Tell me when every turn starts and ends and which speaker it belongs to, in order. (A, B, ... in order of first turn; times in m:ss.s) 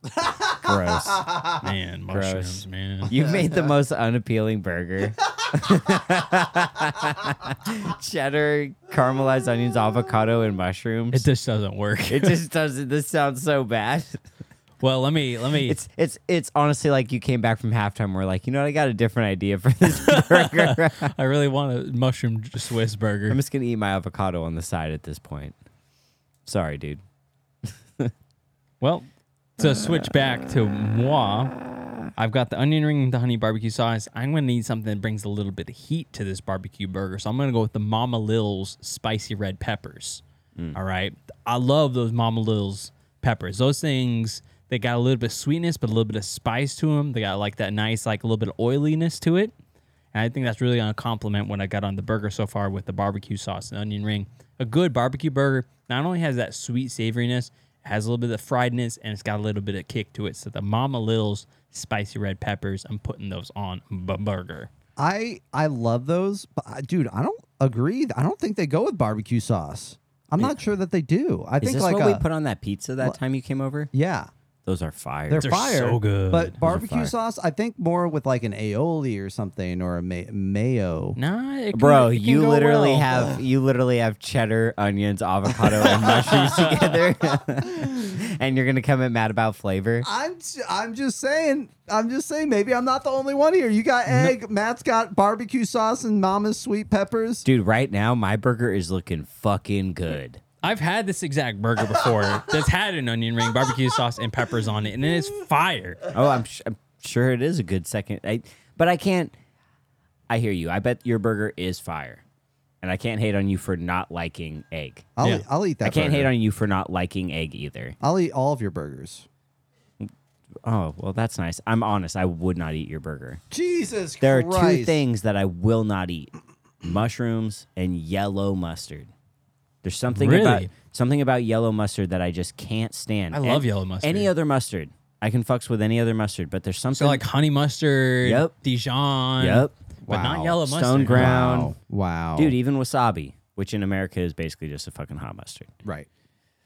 0:00.2-0:01.6 A
0:00.5-0:01.5 B
0:01.6-0:03.1 C
0:02.1-0:11.3 B
0:03.3-0:03.7 A
0:05.7-0:06.1 A
0:11.1-0:12.4 C
0:12.1-0:14.2 B
0:14.8-0:15.8 C
0:15.6-0:21.1 B
0:19.9-0:23.4 C
0:23.3-0:25.6 B
0:26.5-0:27.0 B
0:27.6-0:28.1 B
0:28.8-0:29.1 C
0:29.6-0:31.6 C
0:32.2-0:40.2 C
0:40.7-0:49.5 C
0:50.1-1:04.7 C
1:05.0-1:12.2 A
1:11.6-1:13.9 B
1:13.9-1:14.3 A
1:14.6-1:15.6 B
1:15.3-1:21.2 A
1:15.4-1:16.6 C
1:16.6-1:17.1 B
1:21.2-1:22.6 C
1:21.7-1:30.1 B
1:22.2-1:23.4 A
1:25.7-1:28.0 A
1:25.8-1:26.8 C
1:30.0-1:37.4 A
1:37.4-1:40.4 B
1:40.6-1:46.0 C
1:46.1-1:49.4 B
1:50.3-1:52.2 B
1:52.8-1:55.1 B
1:55.2-1:56.3 A
1:55.8-1:58.0 B
1:58.0-1:59.3 A
2:00.6-2:03.4 B
2:03.5-2:05.0 A
2:04.2-2:09.1 B
2:09.8-2:17.2 B
2:10.1-2:10.7 C
2:13.3-2:14.3 C
2:17.0-2:21.3 C
2:18.2-2:18.5 B
2:19.4-2:19.8 B
2:20.0-2:20.6 A
2:20.5-2:21.7 B
2:21.1-2:22.6 A
2:22.4-2:25.7 B